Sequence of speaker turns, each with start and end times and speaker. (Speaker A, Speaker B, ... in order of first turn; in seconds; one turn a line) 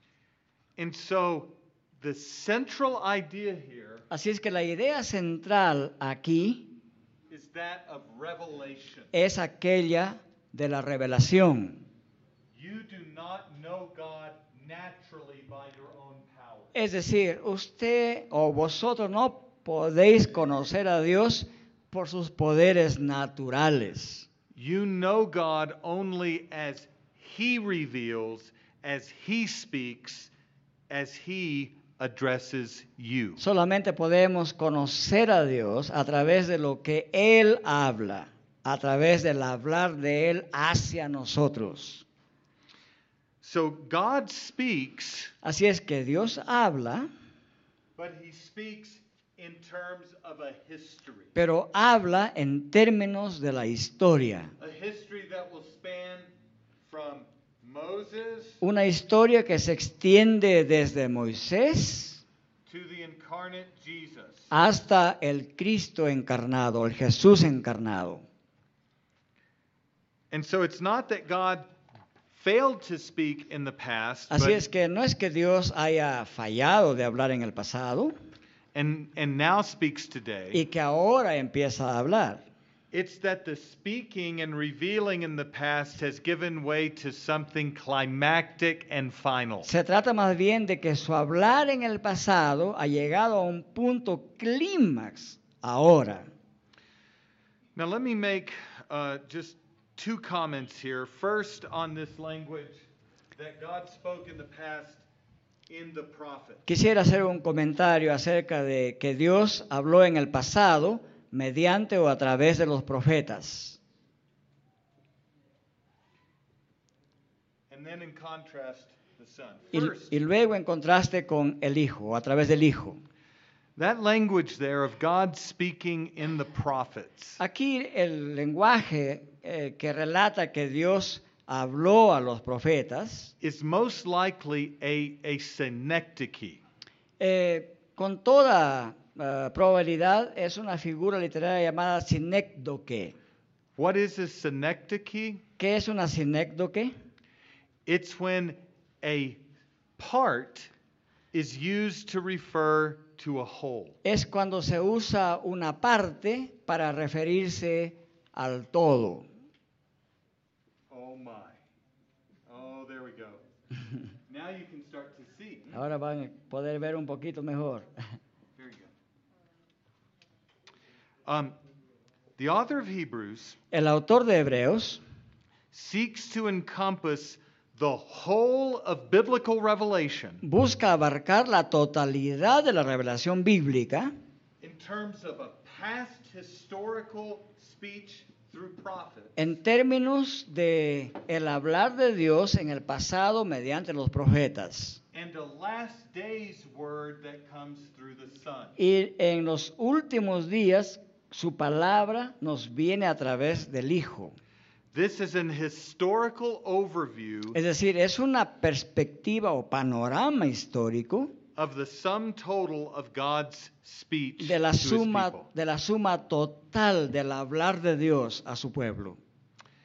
Speaker A: 0.8-4.0
Speaker B: 4.1-6.7
Speaker A: 7.3-9.1
Speaker B: 9.1-11.8
Speaker A: 12.5-16.7
Speaker B: 16.7-24.3
Speaker A: 24.5-30.3
Speaker A: 30.9-33.4
Speaker B: 33.4-42.0
Speaker A: 43.4-45.3
Speaker B: 45.4-47.1
Speaker A: 48.0-51.3
Speaker B: 51.4-54.5
Speaker A: 54.6-56.3
Speaker A: 56.8-58.6
Speaker B: 58.6-62.2
Speaker A: 62.6-64.5
Speaker B: 64.5-68.2
Speaker A: 70.3-71.7
Speaker A: 72.3-74.6
Speaker B: 74.3-78.1
Speaker A: 78.7-80.6
Speaker B: 80.5-82.5
Speaker A: 82.9-89.7
Speaker B: 89.6-96.3
Speaker A: 97.8-105.0
Speaker A: 105.7-106.6
Speaker B: 106.7-113.8
Speaker A: 117.7-120.2
Speaker B: 119.7-123.0
Speaker A: 123.8-127.4
Speaker B: 127.4-133.3
Speaker A: 133.4-136.6
Speaker B: 137.2-143.2
Speaker A: 143.8-145.4
Speaker B: 145.6-146.9
Speaker A: 147.9-149.4
Speaker A: 150.0-150.7
Speaker A: 151.3-154.0
Speaker B: 154.0-159.3
Speaker A: 160.9-161.6
Speaker A: 162.5-163.4
Speaker A: 164.3-165.8
Speaker B: 165.7-167.9
Speaker A: 168.6-168.9
Speaker A: 171.2-171.6
Speaker A: 172.4-173.6
Speaker B: 173.7-175.0
Speaker A: 175.7-180.4
Speaker B: 180.4-184.1
Speaker A: 184.6-189.4
Speaker B: 189.4-195.0
Speaker A: 195.1-198.8
Speaker B: 198.8-204.4
Speaker A: 204.9-207.6
Speaker B: 207.5-211.4
Speaker A: 211.6-215.5
Speaker B: 214.4-219.2